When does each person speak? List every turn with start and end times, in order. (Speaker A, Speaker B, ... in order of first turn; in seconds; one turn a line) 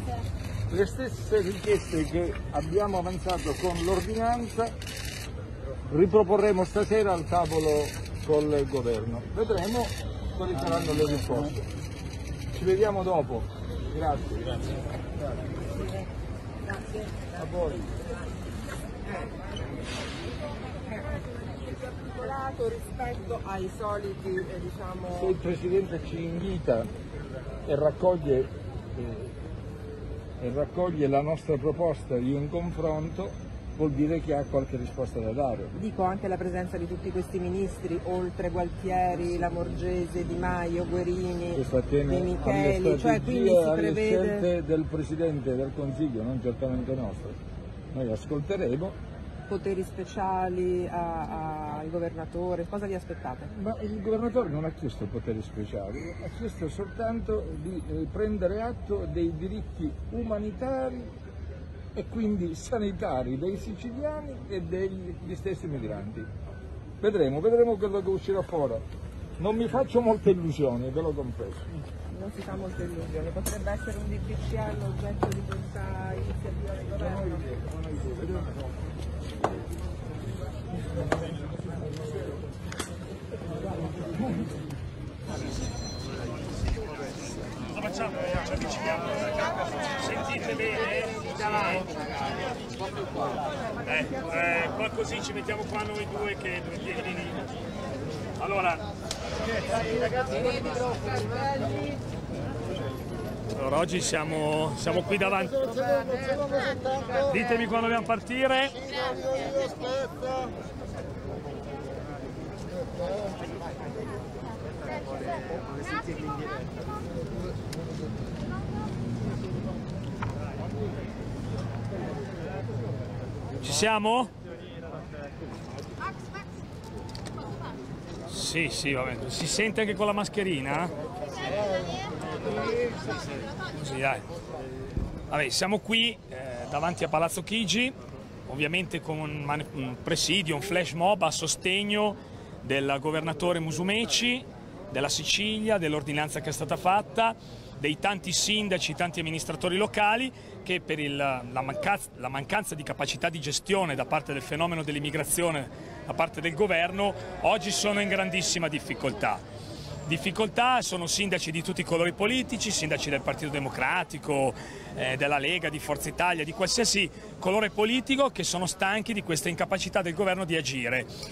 Speaker A: 0.7-4.8
Speaker A: 5.9-11.7
Speaker A: 12.5-14.8
Speaker B: 16.8-17.1
Speaker A: 17.3-17.9
Speaker B: 21.6-25.4
Speaker A: 25.1-26.9
Speaker A: 27.7-29.4
Speaker A: 30.4-35.7
Speaker B: 35.8-44.5
Speaker A: 41.5-47.4
Speaker A: 47.9-49.0
Speaker B: 49.5-53.5
Speaker A: 53.5-61.1
Speaker A: 62.0-66.3
Speaker A: 67.0-68.8
Speaker A: 69.4-71.7
Speaker B: 72.1-76.8
Speaker C: 87.7-92.1
Speaker C: 93.8-97.5
Speaker C: 98.4-98.9
Speaker C: 100.3-100.7
Speaker C: 103.5-108.9
Speaker C: 123.6-124.3
Speaker C: 128.3-130.9
Speaker C: 133.7-134.3
Speaker C: 135.3-138.0
Speaker C: 138.5-159.4
Speaker C: 160.1-171.1